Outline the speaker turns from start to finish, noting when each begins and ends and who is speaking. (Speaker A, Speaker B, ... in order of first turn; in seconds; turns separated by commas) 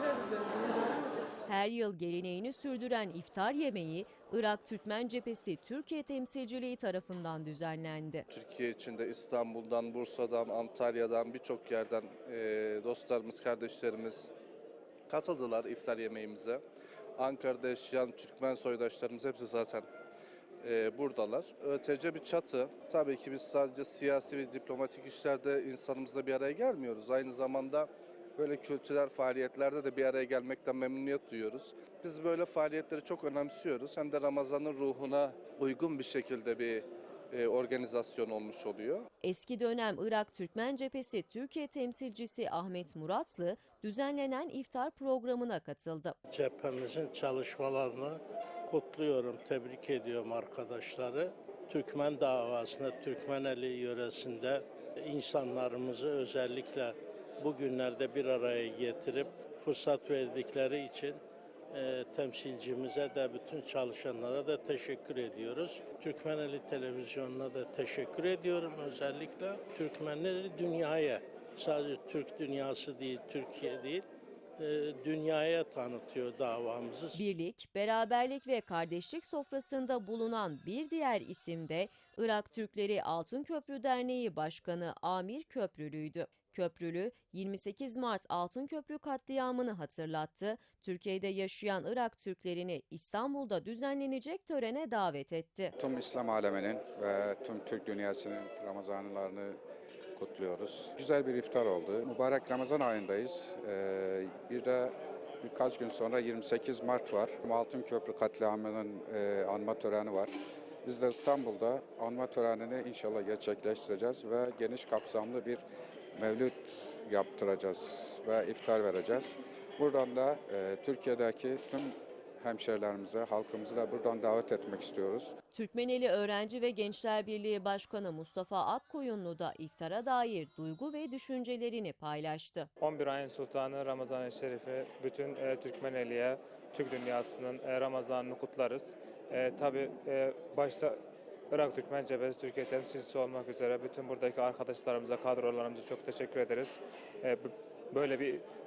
Speaker A: 1.5-8.3, Speaker B: 8.3-14.3, Speaker B: 15.1-16.6, Speaker B: 17.2-19.9, Speaker B: 20.6-39.1, Speaker A: 39.2-46.2, Speaker C: 46.3-61.2, Speaker C: 61.7-74.0, Speaker C: 74.6-77.2, Speaker A: 77.2-95.7, Speaker D: 95.8-99.6, Speaker D: 100.2-115.6, Speaker D: 116.2-125.3, Speaker A: 125.5-132.7, Speaker E: 132.8-141.0, Speaker E: 141.5-148.4